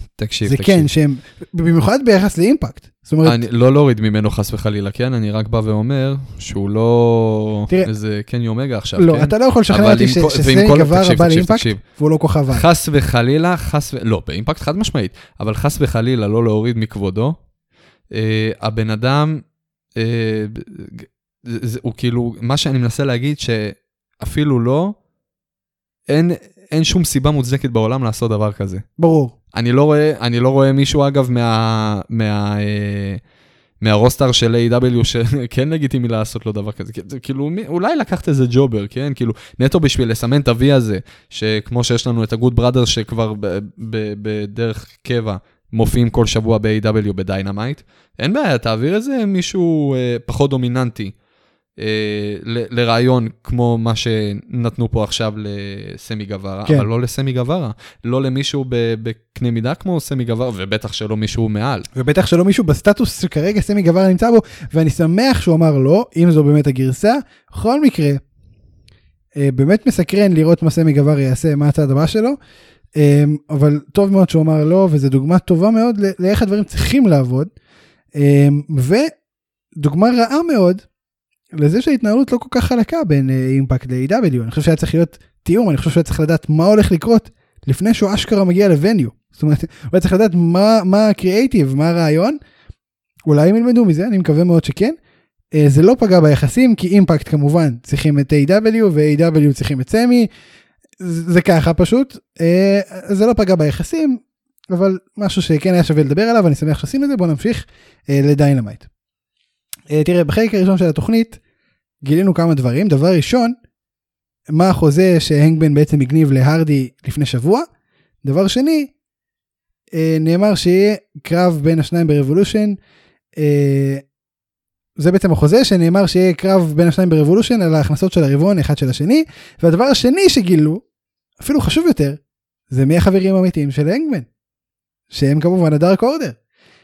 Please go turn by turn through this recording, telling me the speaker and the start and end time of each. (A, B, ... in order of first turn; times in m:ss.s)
0:00.2-0:00.9 A
0:00.4-0:03.4 B
0:03.2-0:11.8 A
0:09.0-0:12.7 B
0:12.5-0:17.4 A
0:18.1-0:19.4 A
0:20.0-0:25.0 A
0:26.1-0:28.8 A
0:29.0-0:29.3 B
0:29.5-0:33.2 A
0:33.8-0:51.1 A
0:51.8-1:01.9 A
1:02.0-1:08.2 B
1:09.4-1:12.4 B
1:13.0-1:17.5 B
1:18.2-1:19.1 B
1:19.8-1:20.8 B
1:21.5-1:32.4 B
1:33.3-1:35.0 B
1:35.5-1:40.3 B
1:41.0-1:48.9 B
1:49.9-1:51.4 B
1:52.0-1:53.6 B
1:54.5-1:57.7 B
1:58.2-1:58.9 B
1:59.9-2:02.8 B
2:03.4-2:04.0 B
2:05.0-2:10.8 B
2:11.4-2:12.2 B
2:12.7-2:14.3 B
2:15.1-2:16.4 B